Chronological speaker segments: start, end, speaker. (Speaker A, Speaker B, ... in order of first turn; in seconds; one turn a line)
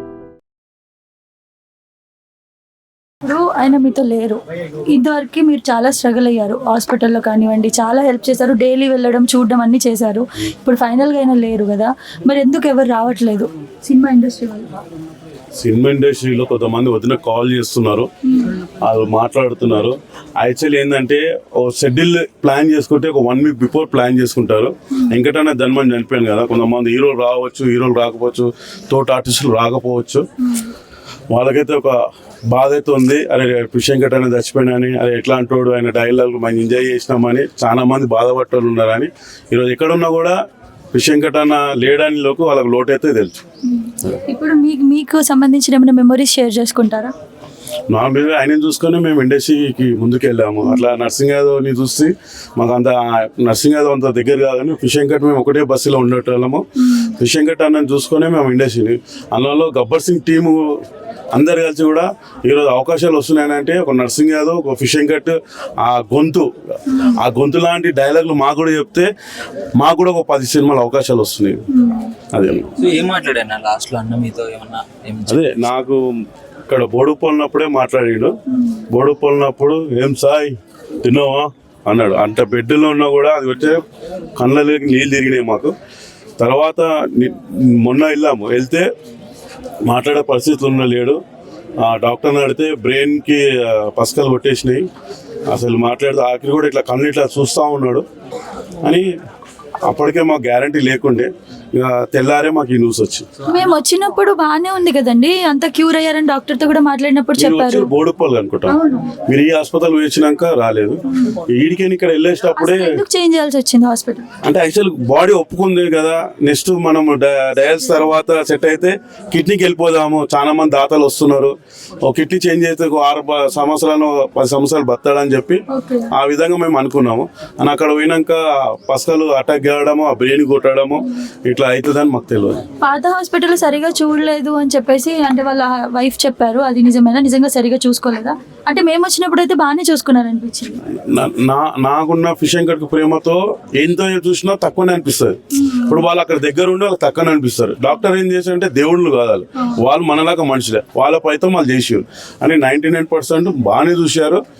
Speaker A: 3.2-14.8
Speaker B: 15.6-18.1
Speaker B: 18.8-30.2
Speaker B: 31.3-31.9
Speaker B: 32.5-40.3
Speaker B: 40.9-43.4
Speaker A: 43.7-47.1
Speaker B: 47.9-56.6
Speaker B: 57.2-60.6
Speaker B: 61.3-66.5
Speaker B: 67.1-69.1
Speaker B: 69.8-71.6
Speaker A: 71.7-72.1
Speaker B: 72.3-72.7
Speaker C: 72.8-75.7
Speaker B: 75.3-76.0
Speaker B: 76.7-78.3
Speaker A: 78.5-78.8
Speaker B: 78.9-83.8
Speaker B: 84.4-85.7
Speaker B: 86.4-88.8
Speaker B: 89.8-91.2
Speaker B: 91.8-94.8
Speaker B: 95.5-98.0
Speaker B: 98.8-99.1
Speaker B: 99.8-103.3
Speaker A: 103.5-107.9
Speaker B: 107.3-108.8
Speaker A: 108.7-109.1
Speaker B: 109.3-113.0
Speaker A: 112.6-114.2
Speaker B: 114.4-125.6
Speaker A: 125.7-126.1
Speaker B: 126.1-132.6
Speaker A: 132.8-140.8
Speaker B: 140.9-154.4